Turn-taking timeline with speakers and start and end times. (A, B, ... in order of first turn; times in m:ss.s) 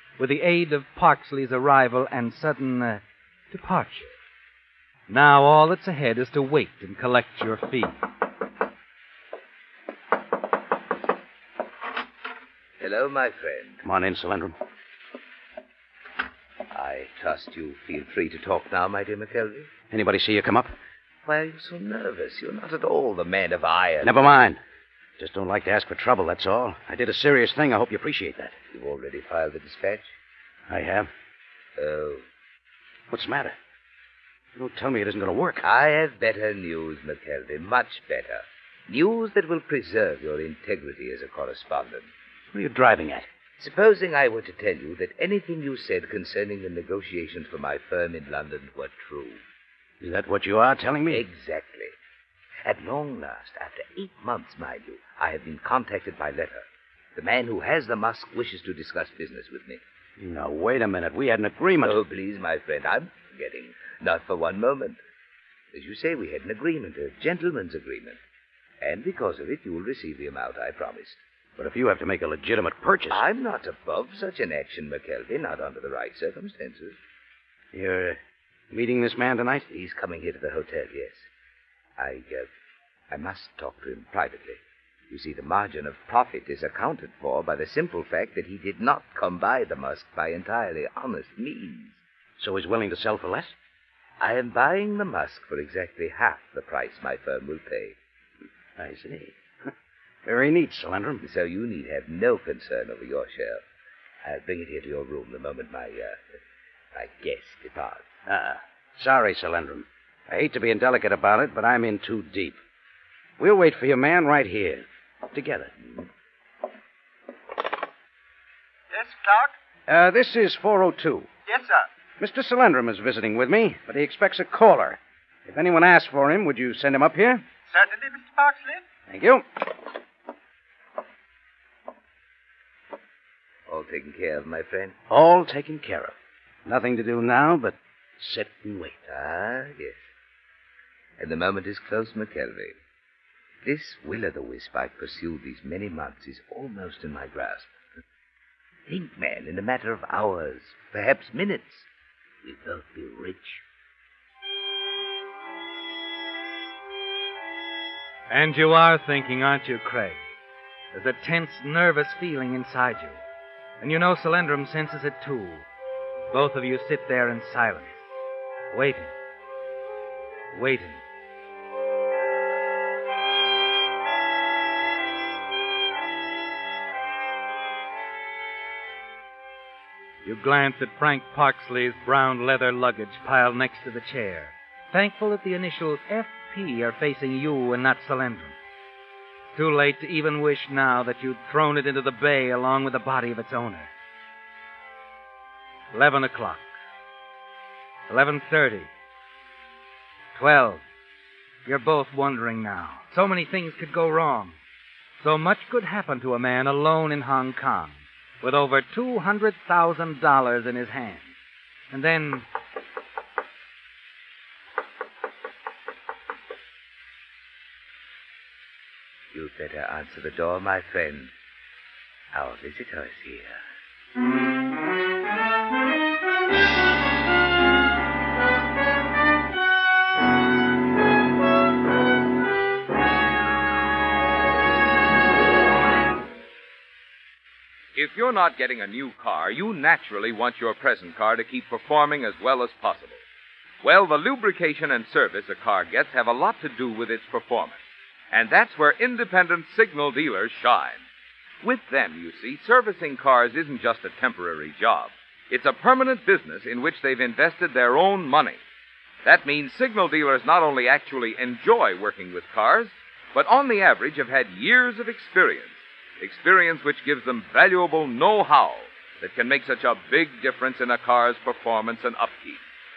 0:00.2-0:04.1 A
0:05.1-0:08.0 A
0:12.8-0:13.8 B
0:13.8-0:14.6 C
0:16.7-0:19.7 B
0:19.9-0:20.7 C
0:21.2-0:24.3 B
0:24.0-0:24.6 C
0:25.2-0:28.6 C
0:28.7-0:30.1 B
0:30.7-0:31.1 C
0:31.8-0:32.2 B
0:33.1-0:33.6 C
0:34.6-0:35.6 C
0:35.6-0:42.1 B
0:42.5-0:43.3 C
0:43.6-0:49.4 B
0:50.0-0:51.2 C
0:51.1-0:51.9 B
0:52.6-0:59.8 B
1:00.2-1:02.0 C
1:01.8-1:05.0 B
1:05.7-1:08.2 B
1:08.8-1:11.2 B
1:11.6-1:13.2 C
1:13.1-1:17.0 B
1:17.7-1:18.2 C
1:18.7-1:19.6 C
1:19.7-1:21.3 B
1:22.0-1:22.5 B
1:23.1-1:32.0 B
1:32.4-1:33.5 C
1:34.2-1:38.0 B
1:38.8-1:39.7 C
1:40.2-1:41.2 C
1:41.2-1:43.6 B
1:44.2-1:46.2 B
1:46.9-1:48.0 B
1:48.3-1:52.6 C
1:53.4-1:55.7 C
1:58.9-1:59.5 D
1:59.9-2:01.3 C
2:01.5-2:01.9 D
2:02.2-2:07.4 C
2:07.7-2:08.8 D
2:09.1-2:09.4 C
2:13.7-2:14.9 B
2:15.1-2:16.1 C
2:16.6-2:19.0 C
2:19.1-2:20.0 B
2:21.2-2:22.8 B
2:23.6-2:27.7 B
2:28.9-2:31.9 B
2:32.4-2:33.6 B
2:38.3-2:40.2 A
2:40.9-2:43.2 A
2:43.8-2:45.6 A
2:46.3-2:48.0 A
2:48.7-2:49.1 A
2:50.5-2:51.0 A
3:00.2-3:08.6 A
3:09.6-3:13.9 A
3:15.9-3:16.7 A
3:18.1-3:18.9 A
3:20.4-3:20.8 A
3:21.6-3:24.6 A
3:25.2-3:31.3 A
3:31.9-3:32.5 A
3:39.3-3:41.3 B
3:42.3-3:43.6 B
3:57.9-4:03.2 E
4:03.8-4:07.8 E
4:08.3-4:11.0 E
4:11.6-4:18.6 E
4:19.2-4:32.6 E